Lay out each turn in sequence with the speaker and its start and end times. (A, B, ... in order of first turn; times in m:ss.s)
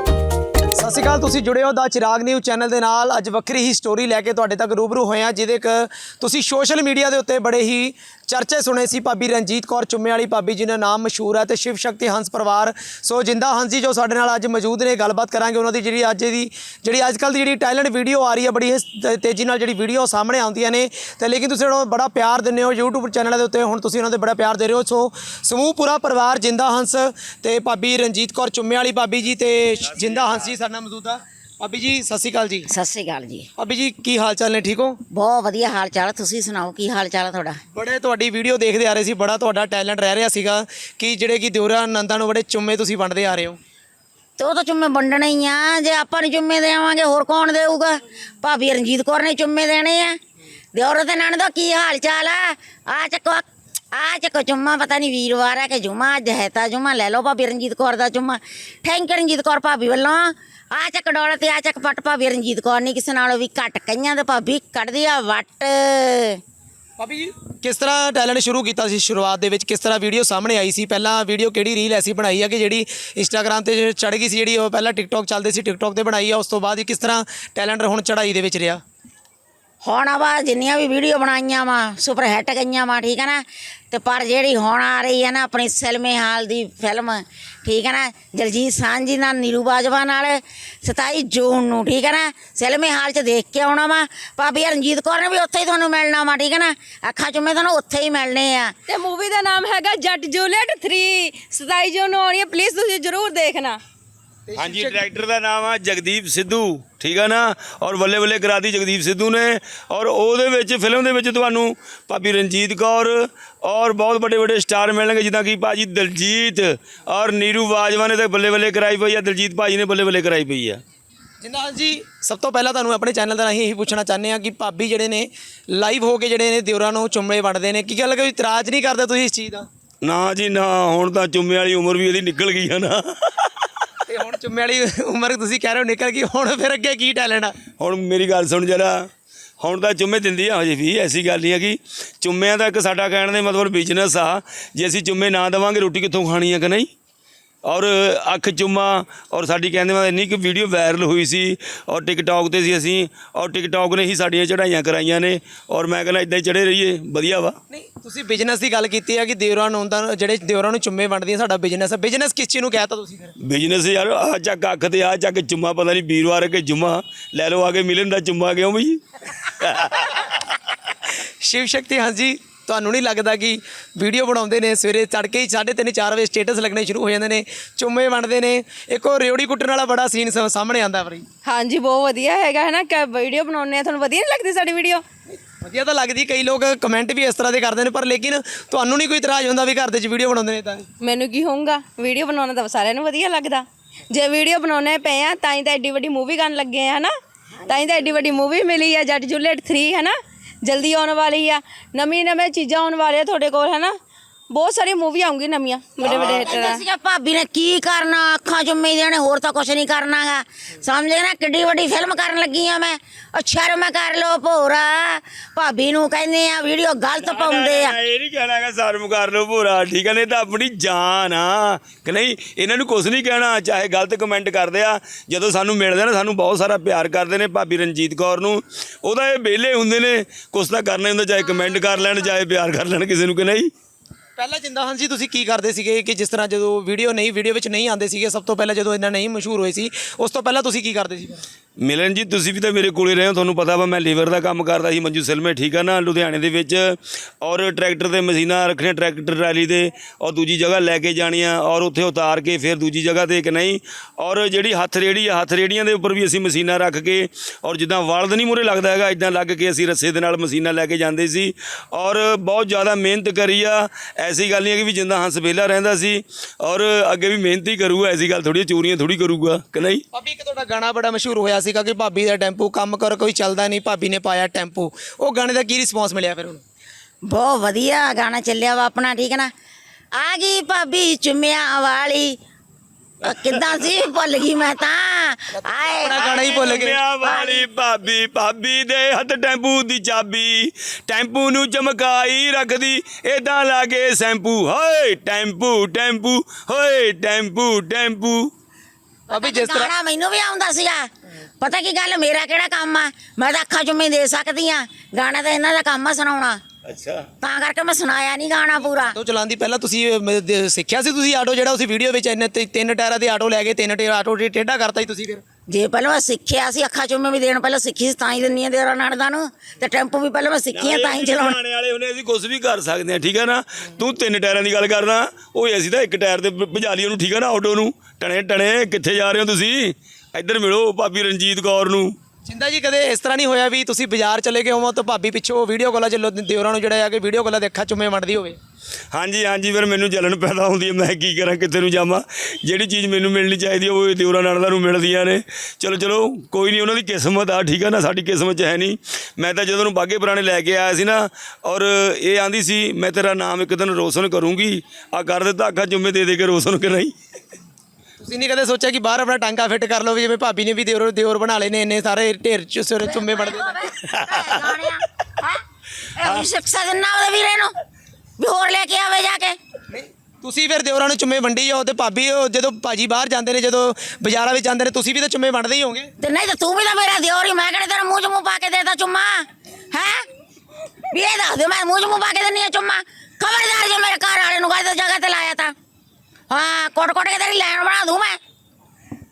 0:00.8-0:32.7 A
0:29.9-0:30.5 B
0:32.7-0:33.5 C
0:33.6-0:35.0 A
0:35.1-0:37.6 C
0:37.7-0:43.6 A
0:44.4-0:50.2 C
0:50.7-1:06.4 C
1:07.0-1:18.8 A
1:19.8-1:38.7 C
1:38.9-1:43.8 D
1:44.5-1:45.0 A
1:44.6-2:00.8 B
2:01.4-2:09.7 A
2:10.0-2:13.6 B
2:14.1-2:17.6 A
2:17.8-2:19.1 B
2:19.6-2:26.9 B
2:27.6-2:37.6 B
2:37.7-2:43.3 A
2:43.4-2:50.3 B
2:51.4-3:01.2 A
3:01.4-3:05.0 D
3:05.4-3:10.9 A
3:11.0-3:17.1 D
3:17.6-3:24.0 D
3:24.5-3:26.8 D
3:26.0-3:26.5 B
3:26.0-3:38.0 C
3:37.2-3:53.7 B
3:54.4-4:01.4 A
4:01.8-4:30.0 B
4:30.1-4:36.6 A
4:37.3-4:39.5 C
4:40.1-4:42.4 C
4:43.2-4:46.2 C
4:43.3-4:43.8 B
4:45.6-4:47.0 A
4:46.2-4:58.5 B
4:47.2-4:47.6 C
4:59.3-4:59.9 A
4:59.3-5:01.1 C
5:01.6-5:06.6 C
5:06.8-5:07.3 B
5:07.4-5:09.1 C
5:09.1-5:15.4 A
5:15.7-5:21.6 C
5:20.7-5:32.1 B
5:32.4-5:38.6 A
5:39.1-5:57.1 B
5:58.2-6:03.8 A
6:03.1-6:05.6 C
6:04.1-6:04.6 B
6:06.2-6:07.7 C
6:08.4-6:09.6 C
6:09.9-6:16.1 A
6:16.2-6:20.2 C
6:21.1-6:25.7 C
6:26.5-6:28.4 C